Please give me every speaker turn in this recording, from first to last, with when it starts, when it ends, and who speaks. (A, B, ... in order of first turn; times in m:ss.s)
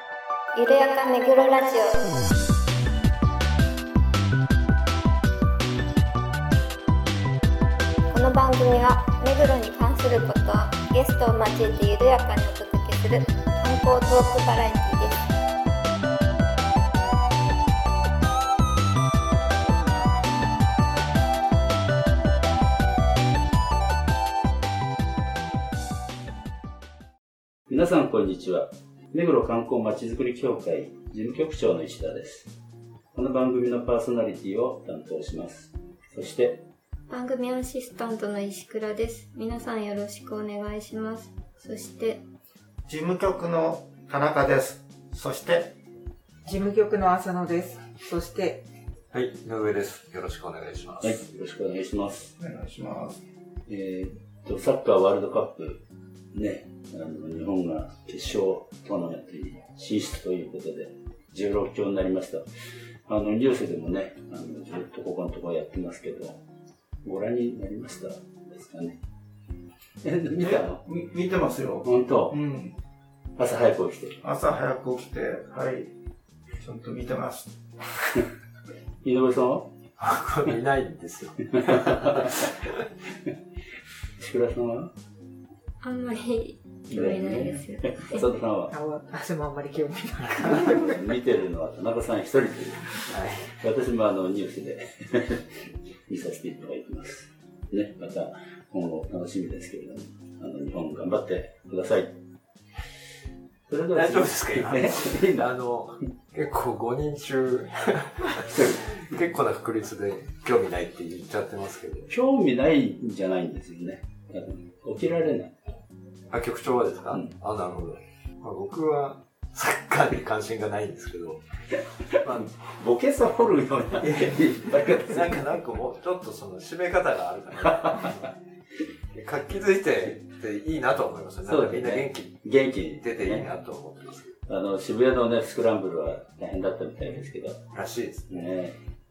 0:00.6-0:02.2 A
0:08.1-0:15.2 A
0:27.7-0:32.5 B
0:33.1-0:36.6 B
0:37.1-0:42.2 A
0:42.9-0:45.7 C
0:46.4-0:48.7 D
0:49.1-0:51.2 E
0:51.0-0:52.3 B
0:52.4-0:53.2 C
0:53.7-1:02.4 B
1:03.1-1:06.4 B
1:07.0-1:09.0 B
1:10.0-1:10.9 B
1:10.4-1:12.8 C
1:11.8-1:12.4 B
1:13.4-1:14.2 B
1:14.2-1:15.9 C
1:16.6-1:17.5 C
1:19.0-1:19.7 B
1:20.0-1:22.5 E
1:21.6-1:22.5 B
1:24.2-1:24.9 B
1:25.8-1:28.2 A
1:26.9-1:28.7 B
1:28.7-1:31.0 D
1:30.4-1:42.2 B
1:43.7-1:45.5 B
1:43.9-1:52.1 E
1:48.5-1:48.8 B
1:52.1-1:55.6 B
1:56.3-2:01.4 E
2:02.1-2:05.4 B
2:02.2-2:02.5 E
2:04.0-2:08.3 E
2:09.1-2:12.4 E
2:11.4-2:13.5 B
2:13.0-2:14.3 E
2:14.5-2:17.6 B
2:17.7-2:18.3 E
2:18.3-2:18.8 B